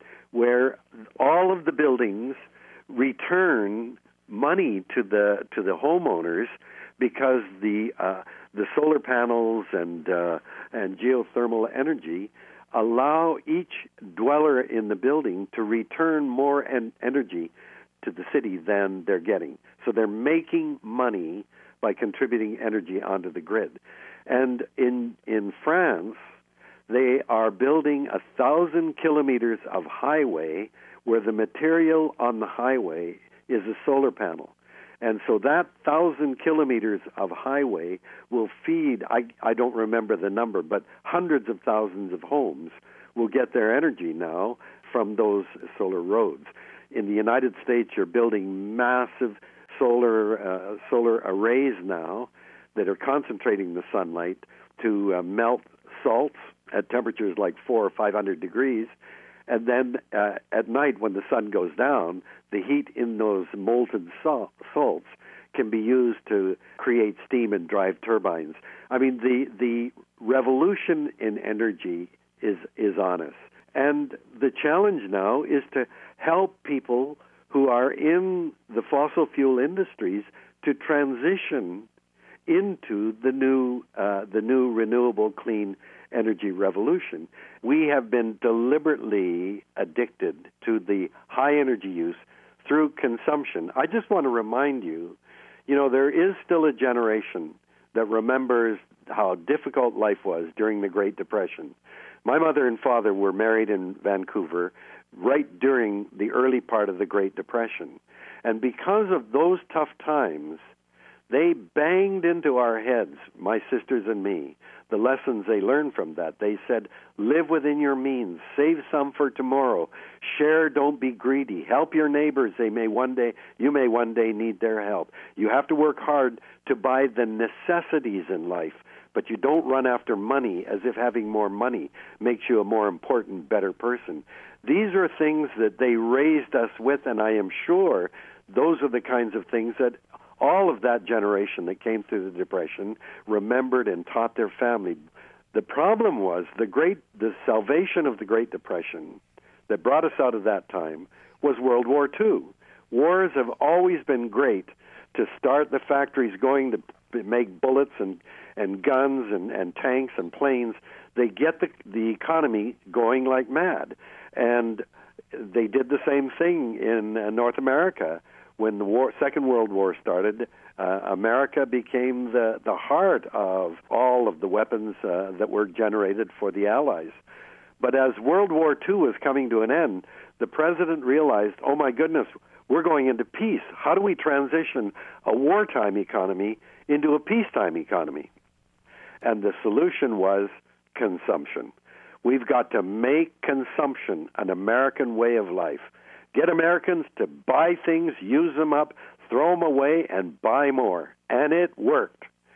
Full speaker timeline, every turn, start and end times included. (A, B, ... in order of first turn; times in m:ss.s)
0:00.3-0:26.2 A
0:26.9-0:58.9 A
0:59.5-1:21.9 A
1:22.5-1:50.6 A
1:51.3-2:25.0 A
2:25.5-2:57.2 A
2:57.8-3:08.3 A
3:09.2-3:11.7 A
3:12.2-3:22.3 A